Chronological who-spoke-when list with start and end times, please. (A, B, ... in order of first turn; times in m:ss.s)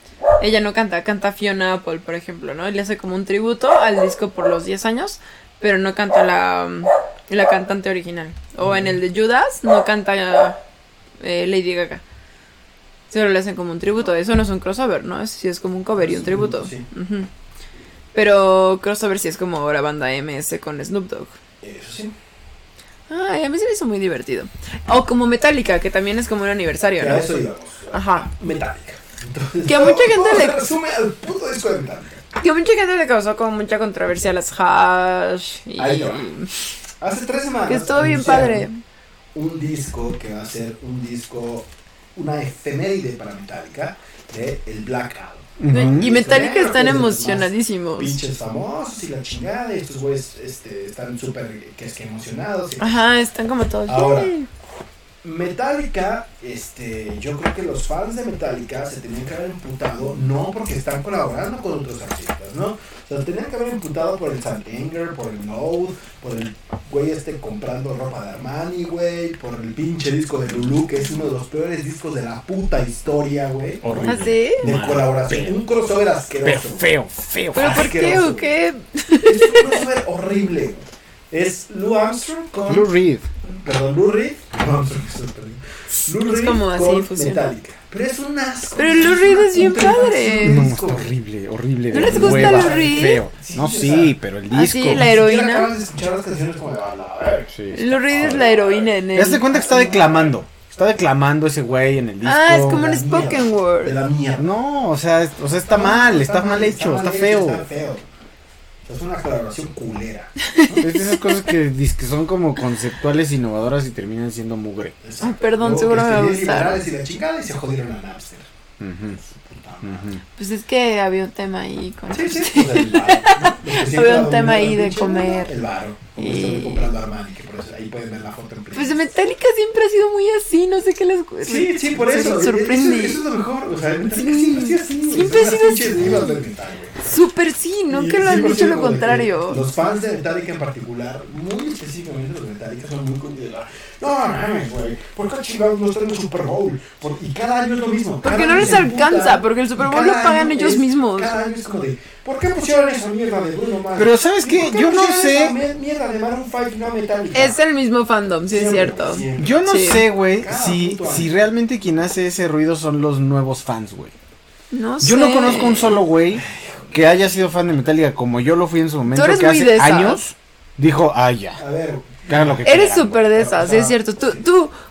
0:00.4-0:10.6 A
0:08.6-0:09.0 B
0:11.2-0:12.0 A
0:13.1-0:17.3 A
0:16.0-0:16.9 B
0:18.2-0:21.4 A
0:21.6-0:22.2 B
0:23.1-0:27.3 A
0:27.0-0:32.2 B
0:27.9-0:28.3 A
0:29.7-0:30.6 A
0:32.4-0:36.7 A
0:35.8-0:36.3 B
0:37.0-0:38.7 B
0:37.7-0:38.7 A
0:39.3-0:53.0 B
0:45.6-0:46.1 C
0:45.7-0:48.2 A
0:52.8-0:54.5 A
0:53.9-0:54.3 B
0:55.2-1:16.9 B
1:13.8-1:15.6 C
1:14.0-1:14.6 A
1:16.4-1:17.8 C
1:17.5-1:18.5 B
1:17.5-1:19.8 A
1:19.2-1:22.9 B
1:22.7-1:23.3 C
1:23.4-1:31.1 B
1:26.3-1:27.5 A
1:28.8-1:30.7 A
1:30.4-1:35.1 C
1:31.9-1:33.2 A
1:31.9-1:34.2 B
1:34.5-1:35.7 A
1:34.9-1:38.9 B
1:37.5-1:38.4 C
1:37.7-1:40.0 A
1:39.1-1:42.8 C
1:39.5-1:40.4 B
1:42.2-1:44.0 A
1:42.6-1:44.5 B
1:44.4-1:47.7 C
1:45.7-1:48.1 B
1:48.9-1:50.4 B
1:50.5-1:51.2 A
1:50.8-1:55.0 C
1:55.0-1:58.5 B
1:55.2-1:56.8 A
1:58.8-1:59.2 C
1:59.2-2:00.1 B
1:59.8-2:00.2 C
2:00.4-2:05.5 A
2:02.1-2:09.1 B
2:06.2-2:06.9 A
2:08.7-2:13.2 A
2:11.4-2:17.1 B
2:14.1-2:16.4 A
2:17.0-2:19.6 A
2:17.9-2:37.6 B
2:28.2-2:31.4 A
2:34.0-2:35.6 C
2:37.3-2:40.1 A
2:38.5-2:41.3 B
2:39.4-2:44.1 C
2:44.7-2:46.0 A
2:45.0-2:51.6 C
2:46.3-2:47.0 B
2:49.1-2:50.2 A
2:51.6-2:54.4 B
2:52.3-2:53.2 C
2:52.6-2:54.8 A